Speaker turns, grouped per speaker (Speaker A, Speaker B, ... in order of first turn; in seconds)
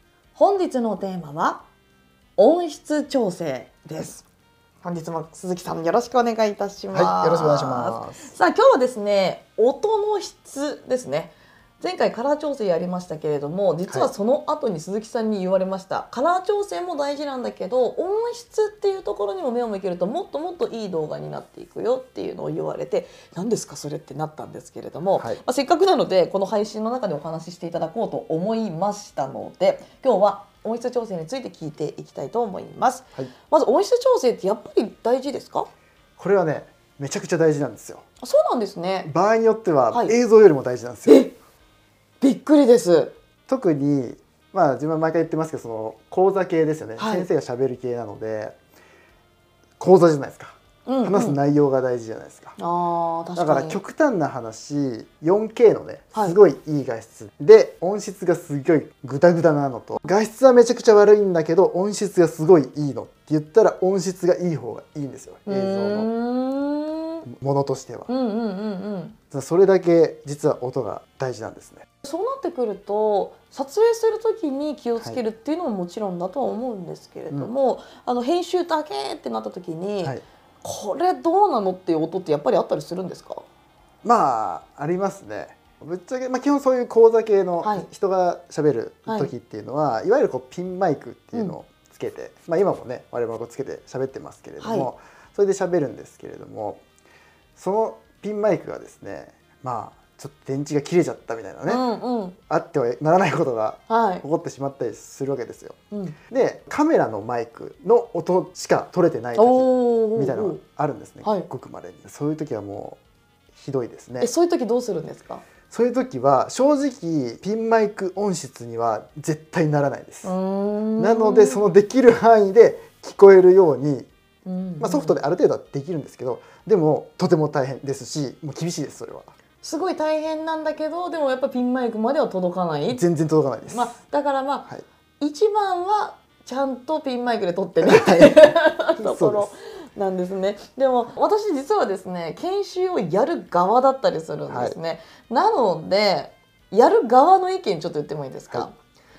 Speaker A: 0.3-1.7, 2.4-4.2, 4.8-35.7, 38.2-39.1, 41.1-41.3, 42.2-43.1, 47.0-47.3, 50.9-51.4, 52.6-53.8, 65.5-67.3, 68.1-69.2, 72.0-83.4, 87.6-87.9, 89.1-89.3, 94.6-94.9, 101.7-102.4, 103.9-104.2, 105.9-106.2, 109.4-110.6, 111.2-111.5, 114.2-115.5, 120.2-121.6, 124.5-125.2, 129.6-133.0, 133.7-148.8
Speaker B: 6.9-8.3, 36.2-38.0, 39.0-41.3, 43.5-48.5, 49.8-52.6, 53.4-66.1, 67.3-68.1, 69.3-71.8, 84.0-96.8, 97.6-101.8, 102.5-105.8, 106.3-113.0, 113.6-114.3, 115.7-120.3, 121.0-124.1, 124.8-129.3, 132.9-133.9, 137.8-138.4, 139.0-139.5, 144.5-144.8